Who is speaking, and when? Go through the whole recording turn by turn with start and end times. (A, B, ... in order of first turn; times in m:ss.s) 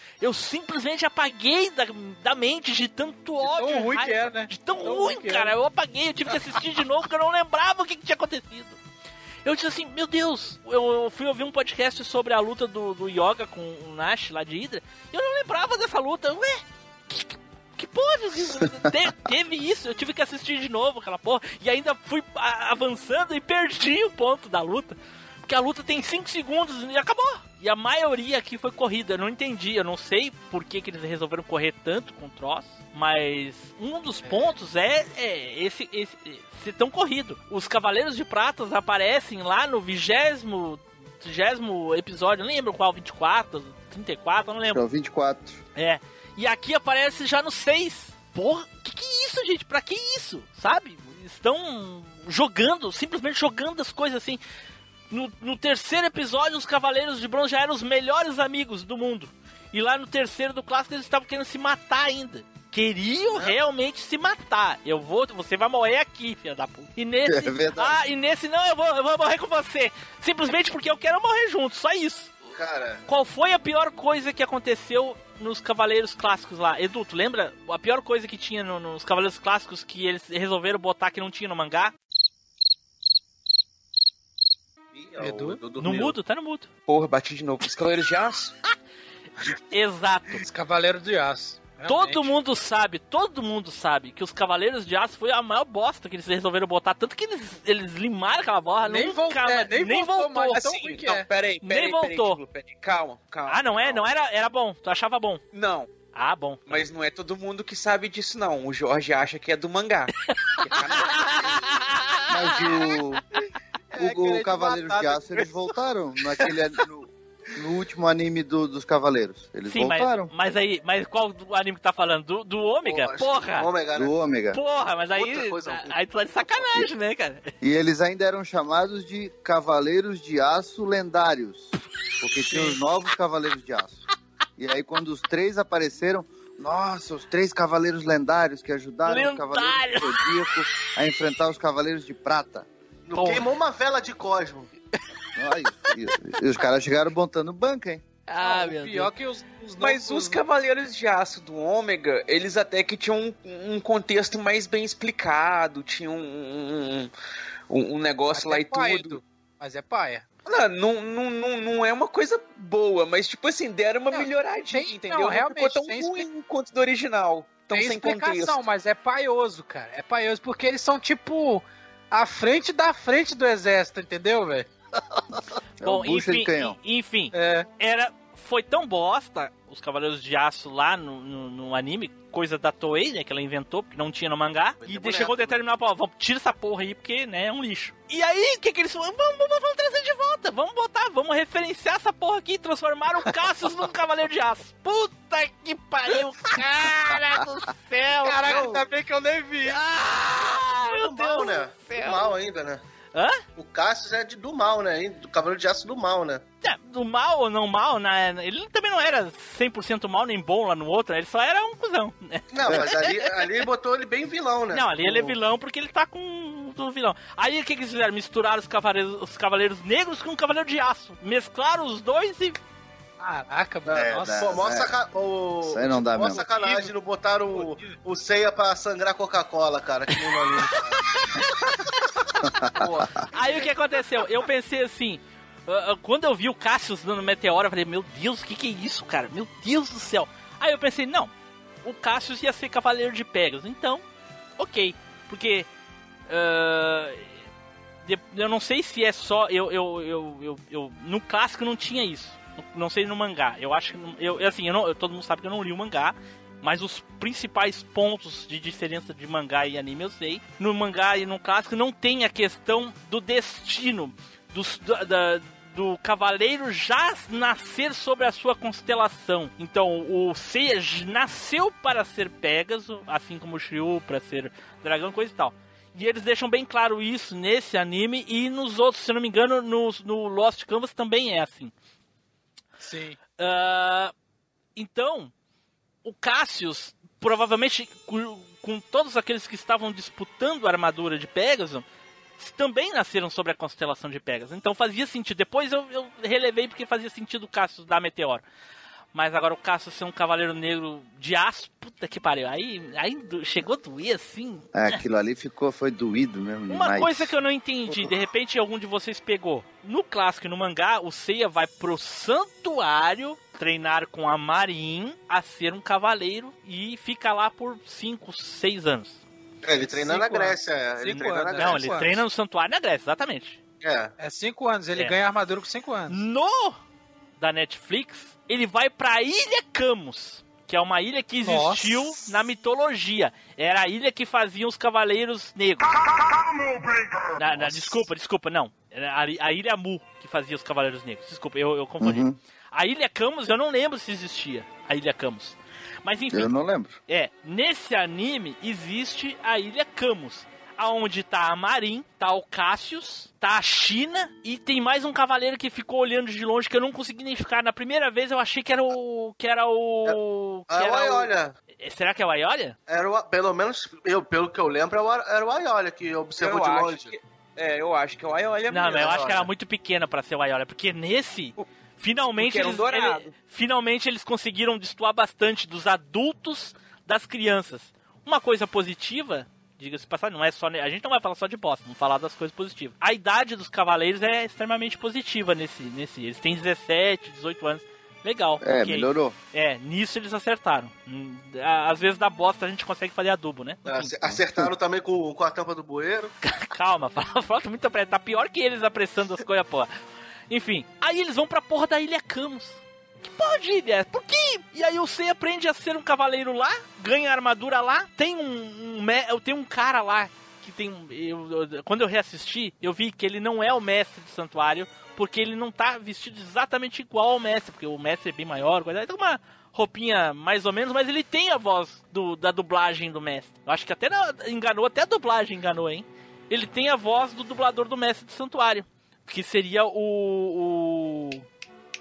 0:00.2-0:08.8 A
0:03.4-0:05.5 B
0:06.3-0:06.6 B
0:09.4-0:44.8 A
0:44.7-0:45.6 C
0:45.8-0:54.4 A
0:55.1-1:12.3 A
1:07.2-1:08.0 C
1:12.5-1:13.0 D
1:13.1-1:21.9 A
1:24.9-1:26.2 D
1:25.2-1:25.6 B
1:25.8-1:26.7 A
1:26.9-1:28.5 E
1:29.5-1:30.4 A
1:30.4-1:32.3 B
1:31.8-1:40.6 A
1:38.8-1:41.3 B
1:40.5-1:44.0 E
1:41.6-1:42.4 A
1:43.5-1:45.4 A
1:45.5-1:45.9 E
1:46.1-1:46.8 A
1:46.7-1:51.8 E
1:52.3-1:53.2 C
1:53.9-1:55.5 E
1:54.0-2:00.3 C
1:59.6-2:03.7 A
2:02.8-2:04.1 D
2:04.0-2:04.6 C
2:04.5-2:07.5 A
2:05.1-2:06.7 D
2:07.6-2:14.0 C
2:12.4-2:12.8 A
2:14.6-2:22.7 C
2:19.0-2:20.7 A
2:23.1-2:24.7 D
2:23.1-2:23.4 A
2:25.4-2:28.0 C
2:28.3-2:29.1 A
2:28.4-2:30.4 B
2:29.8-2:37.1 E
2:37.7-2:39.2 E
2:38.3-2:40.2 B
2:40.4-2:48.6 E
2:44.1-2:46.2 B
2:47.7-2:54.7 B
2:55.8-2:56.8 C
2:55.8-3:18.7 A
2:57.3-2:57.7 B
3:04.8-3:05.6 D
3:18.3-3:18.8 B
3:18.4-3:18.8 D
3:18.5-3:19.6 E
3:19.7-3:22.3 A
3:20.7-3:22.8 D
3:23.1-3:23.4 A
3:23.6-3:26.4 D
3:26.6-3:33.3 A
3:32.5-3:35.0 D
3:34.7-3:42.6 A
3:43.2-3:44.5 B
3:43.9-3:51.2 D
3:43.9-3:44.9 C
3:45.6-3:46.4 C
3:46.2-3:46.9 B
3:47.5-3:48.0 B
3:52.4-3:53.0 C
3:52.8-3:53.7 D
3:53.3-4:01.3 A
4:01.8-4:04.0 A
4:04.6-4:05.7 A
4:06.3-4:07.4 A
4:08.0-4:41.7 A
4:42.8-4:43.2 B
4:43.4-4:44.1 A
4:44.8-4:45.3 A
4:46.0-4:51.8 A
4:52.4-4:58.4 A
4:59.1-5:05.0 A
5:04.7-5:07.3 C
5:06.7-5:19.2 A
5:19.6-5:22.2 D
5:20.0-5:22.1 B
5:21.5-5:23.6 A
5:23.8-5:24.1 D
5:24.2-5:26.2 B
5:26.1-5:26.8 A
5:27.4-5:35.9 A
5:31.4-5:32.0 B
5:37.3-5:46.5 A
5:37.5-5:37.8 C
5:42.0-5:42.4 C
5:46.3-5:47.0 C
5:47.1-6:02.8 A
6:00.7-6:01.5 D
6:02.9-6:07.2 D
6:06.4-6:09.5 E
6:08.7-6:34.3 A
6:09.0-6:09.4 D
6:12.4-6:13.3 E
6:28.6-6:29.4 C
6:33.8-6:36.3 D
6:36.4-6:39.9 A
6:40.5-7:11.4 A